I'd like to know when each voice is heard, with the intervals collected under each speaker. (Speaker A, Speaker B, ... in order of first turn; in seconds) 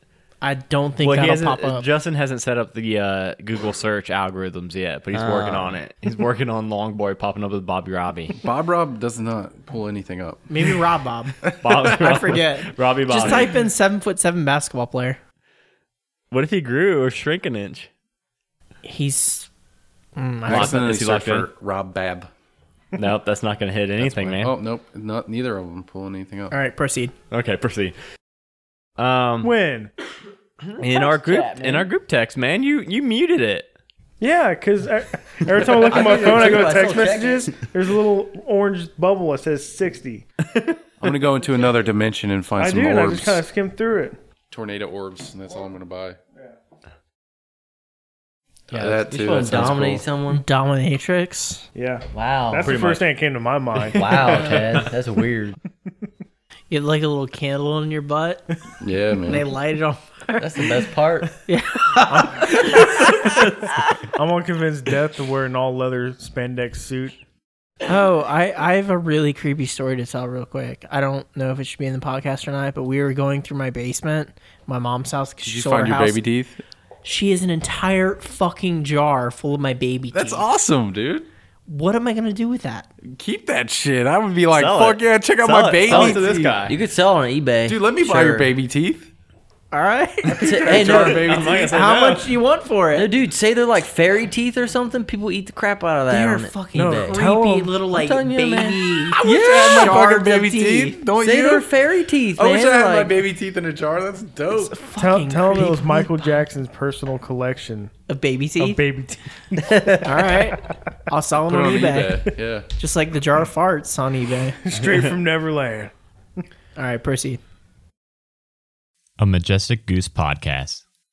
Speaker A: 0.4-1.9, 10.5-15.2, 18.8-19.5, 20.1-20.9, 26.5-27.1, 50.3-51.7, 56.7-58.5, 59.2-63.7, 67.8-76.2, 77.0-80.4, 81.7-82.9, 89.7-93.1, 96.1-101.0, 104.5-106.4, 108.1-108.8, 110.0-114.6, 116.8-117.4
Speaker B: 1.0-8.4, 11.6-13.5, 16.3-17.9, 20.5-21.5, 22.9-24.5, 27.3-27.9, 29.0-29.5, 30.8-33.7, 40.5-40.8, 52.6-53.0, 53.8-54.9, 84.5-86.8, 90.7-92.3, 114.8-115.0, 119.2-120.8
Speaker C: 5.1-5.8, 30.7-31.9, 35.7-37.5, 48.7-50.4, 52.1-52.8, 53.9-55.6, 60.4-61.3, 85.8-88.5, 90.3-91.4, 92.9-97.2, 97.9-100.3, 101.1-103.2, 109.5-110.3
Speaker D: 8.4-10.8, 11.5-12.2, 20.4-22.3, 24.0-26.6, 41.0-43.4, 44.5-46.2, 48.7-50.0, 58.8-59.4, 75.4-76.6, 80.1-81.2, 83.1-86.6, 87.6-89.1, 90.2-91.8, 99.1-101.7, 102.3-104.8, 111.5-112.7
Speaker E: 29.4-29.9, 34.2-40.2, 42.6-44.2, 51.7-54.5, 62.0-67.2, 96.7-97.8, 104.9-107.9, 108.6-109.3, 110.5-110.8, 114.6-115.9